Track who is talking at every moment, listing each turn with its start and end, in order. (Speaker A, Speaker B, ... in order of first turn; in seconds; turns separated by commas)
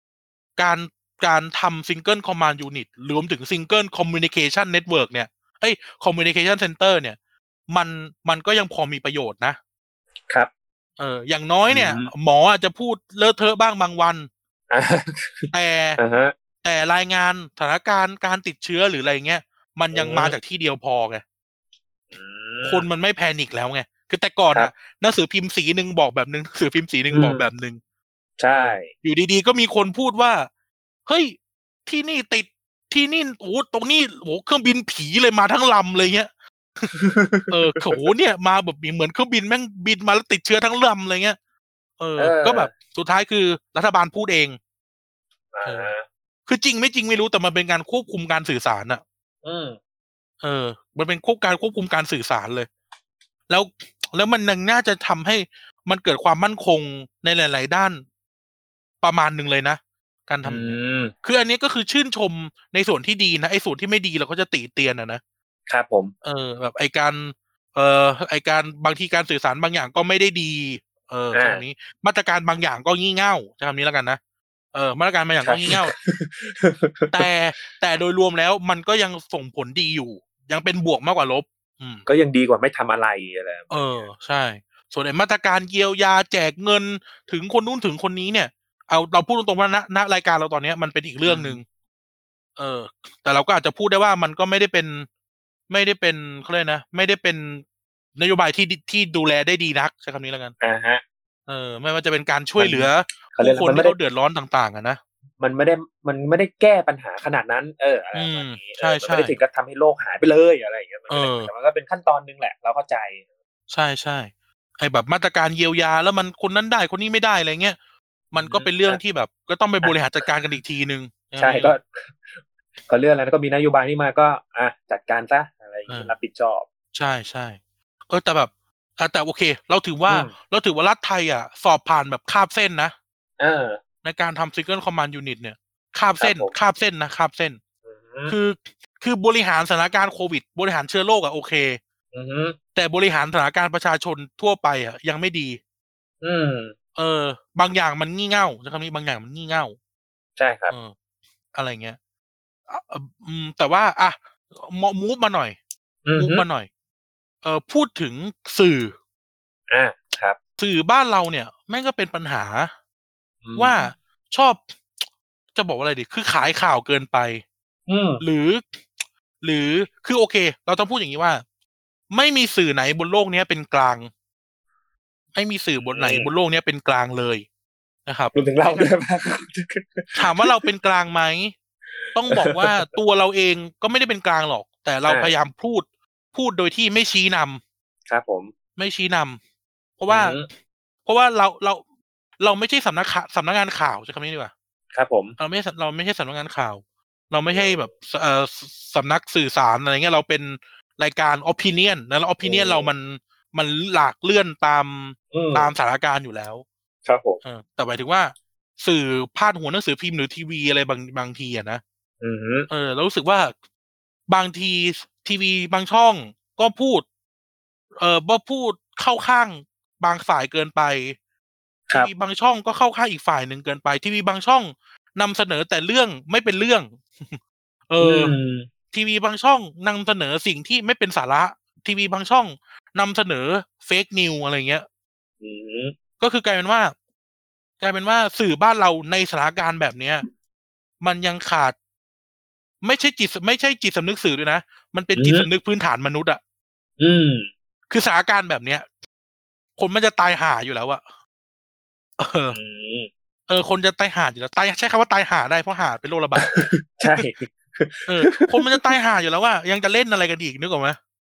Speaker A: 0.6-7.2, Speaker A: 7.7-9.6, Speaker A: 11.0-14.3, Speaker B: 11.7-12.1, Speaker B: 14.7-16.3, Speaker A: 15.5-16.0, Speaker A: 16.6-21.2, Speaker B: 19.9-20.4, Speaker B: 22.1-22.9, Speaker A: 22.6-27.8, Speaker B: 27.1-27.4, Speaker B: 28.4-28.9, Speaker A: 28.5-30.5, Speaker A: 31.1-36.9, Speaker B: 36.9-37.9, Speaker A: 37.5-41.4, Speaker A: 42.0-44.6, Speaker B: 42.2-42.7, Speaker B: 45.5-46.0, Speaker A: 45.6-45.9, Speaker A: 46.5-49.0, Speaker B: 49.4-49.8, Speaker A: 50.4-52.7, Speaker A: 53.5-58.0, Speaker A: 59.0-65.2, Speaker B: 60.4-61.1, Speaker B: 65.7-66.1, Speaker A: 66.2-74.2, Speaker B: 71.3-71.6, Speaker A: 74.7-75.9, Speaker B: 75.4-77.2, Speaker A: 77.1-82.0, Speaker B: 82.0-84.0, Speaker A: 83.7-91.6, Speaker B: 91.2-91.6, Speaker A: 92.6-95.1, Speaker A: 95.7-97.6, Speaker A: 98.2-100.5, Speaker B: 100.6-101.0, Speaker A: 101.5-105.0, Speaker B: 102.6-104.0, Speaker B: 105.4-113.2, Speaker A: 108.1-109.3, Speaker A: 111.1-111.5, Speaker A: 113.7-117.8, Speaker A: 118.3-121.8, Speaker B: 118.3-119.0, Speaker B: 119.8-120.3, Speaker B: 121.4-126.7, Speaker A: 126.9-132.9, Speaker B: 130.1-130.3, Speaker B: 133.4-133.8, Speaker A: 134.0-137.6, Speaker B: 136.2-136.5, Speaker B: 137.9-138.3, Speaker A: 138.3-141.8, Speaker B: 142.1-142.6, Speaker A: 142.7-145.6, Speaker B: 146.2-146.7, Speaker A: 146.9-149.8, Speaker B: 150.4-150.7, Speaker A: 151.5-152.0, Speaker A: 152.7-155.6, Speaker B: 156.0-156.4, Speaker A: 156.2-156.7, Speaker A: 157.4-158.9, Speaker B: 159.7-160.4, Speaker A: 160.6-162.7, Speaker B: 163.4-163.9, Speaker A: 163.6-164.7, Speaker A: 165.5-167.4, Speaker B: 167.9-168.2, Speaker A: 168.2-168.8, Speaker A: 169.4-171.4, Speaker A: 172.1-174.1, Speaker A: 175.3-177.4, Speaker B: 175.8-176.3, Speaker A: 178.1-178.8, Speaker B: 178.3-180.5, Speaker A: 180.2-181.5, Speaker A: 182.1-187.6, Speaker B: 182.3-182.8, Speaker B: 185.1-185.3, Speaker B: 188.1-188.5, Speaker A: 188.8-189.4, Speaker A: 190.0-190.4, Speaker B: 190.1-190.5, Speaker A: 191.1-191.8, Speaker A: 192.4-194.5, Speaker B: 194.9-195.3, Speaker A: 195.4-206.6, Speaker B: 197.5-197.9, Speaker B: 202.4-202.9, Speaker B: 205.3-205.7, Speaker B: 207.1-207.4, Speaker A: 207.4-211.8, Speaker B: 212.2-212.7, Speaker A: 212.7-213.5, Speaker A: 214.3-217.0, Speaker A: 218.0-221.2, Speaker A: 221.9-228.3, Speaker B: 228.0-228.7, Speaker A: 228.9-234.8, Speaker B: 235.4-235.9, Speaker A: 236.2-236.9, Speaker A: 237.8-240.2, Speaker A: 241.0-241.7, Speaker A: 242.8-246.4, Speaker B: 245.2-245.5, Speaker B: 247.0-247.5, Speaker A: 247.9-248.8, Speaker A: 249.8-251.0, Speaker A: 252.2-252.6, Speaker B: 252.5-253.1, Speaker A: 253.5-256.5, Speaker B: 256.4-258.9, Speaker A: 258.1-261.0